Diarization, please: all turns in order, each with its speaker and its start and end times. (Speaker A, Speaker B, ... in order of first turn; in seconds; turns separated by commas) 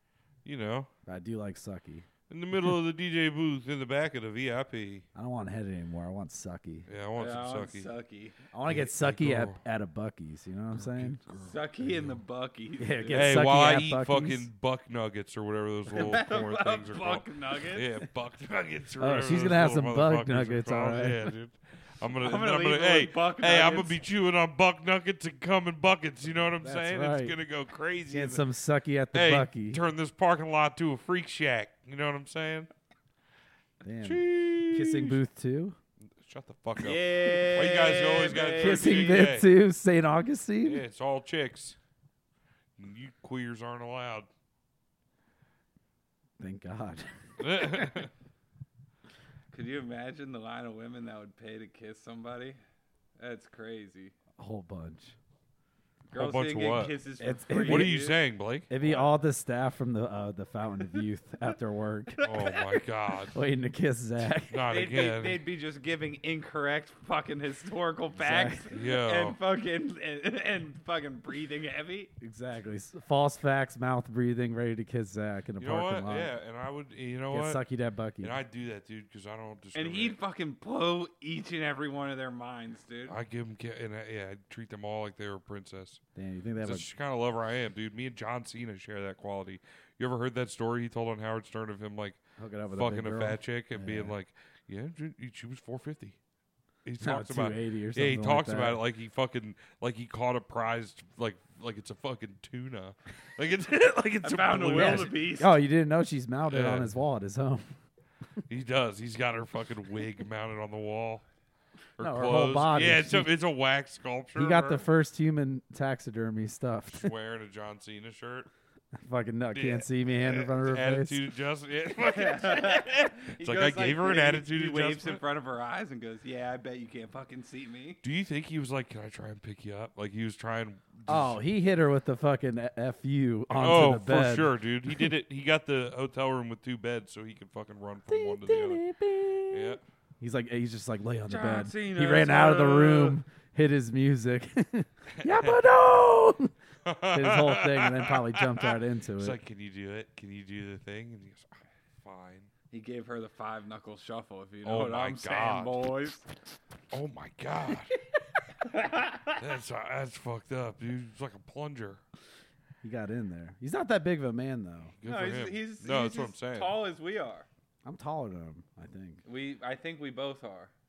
Speaker A: 0.4-0.9, Speaker B: 1.1-2.1, Speaker A: 2.3-5.0, Speaker B: 5.1-6.9, Speaker A: 6.9-7.9, Speaker C: 7.2-8.3, Speaker B: 8.5-11.2, Speaker A: 8.6-9.6, Speaker A: 10.8-12.2, Speaker C: 11.4-13.8, Speaker B: 12.8-14.5, Speaker A: 13.1-28.4, Speaker C: 15.9-17.9, Speaker B: 19.0-21.2, Speaker C: 22.2-24.0, Speaker B: 26.6-27.4, Speaker B: 28.1-29.8, Speaker A: 29.1-32.7, Speaker B: 33.8-35.8, Speaker A: 34.0-35.2, Speaker A: 36.2-39.5, Speaker C: 36.8-39.2, Speaker B: 38.5-40.8, Speaker A: 40.6-41.8, Speaker A: 42.8-44.3, Speaker B: 46.4-48.1, Speaker A: 47.4-48.1, Speaker C: 49.5-52.6, Speaker C: 53.2-54.1, Speaker B: 54.4-55.1, Speaker C: 56.1-58.2, Speaker A: 56.1-57.0, Speaker B: 57.2-58.0, Speaker A: 57.6-58.7, Speaker B: 58.7-62.2, Speaker C: 62.2-62.8, Speaker A: 62.2-63.3, Speaker B: 63.3-64.7, Speaker A: 64.5-65.4, Speaker C: 64.7-72.1, Speaker B: 68.2-68.6, Speaker A: 68.7-69.4, Speaker B: 72.2-76.3, Speaker A: 75.6-77.6, Speaker B: 77.3-78.4, Speaker A: 78.2-80.2, Speaker C: 79.7-83.2, Speaker A: 83.1-86.0, Speaker B: 86.1-86.8, Speaker A: 86.6-92.2, Speaker B: 92.4-94.1, Speaker A: 92.7-96.2, Speaker A: 96.8-105.1, Speaker B: 97.0-98.8, Speaker C: 104.2-105.5, Speaker B: 104.7-107.8, Speaker A: 106.5-106.9, Speaker A: 108.5-111.2, Speaker A: 112.0-114.8, Speaker B: 112.0-113.3, Speaker B: 114.3-117.1, Speaker A: 117.0-118.5, Speaker B: 119.0-121.2, Speaker A: 119.5-125.2, Speaker C: 122.0-128.0, Speaker A: 128.0-131.4, Speaker B: 131.1-135.1, Speaker A: 133.5-138.8, Speaker B: 138.1-146.5, Speaker A: 139.5-139.8, Speaker C: 141.3-143.2, Speaker A: 145.2-145.6, Speaker A: 146.8-152.5, Speaker B: 147.1-149.4, Speaker C: 152.7-156.2, Speaker A: 154.6-155.7, Speaker A: 156.9-157.9, Speaker C: 158.7-159.3, Speaker A: 159.4-162.0, Speaker B: 162.8-164.9, Speaker A: 165.0-166.8, Speaker C: 165.1-167.5, Speaker B: 167.8-169.2, Speaker C: 169.2-170.7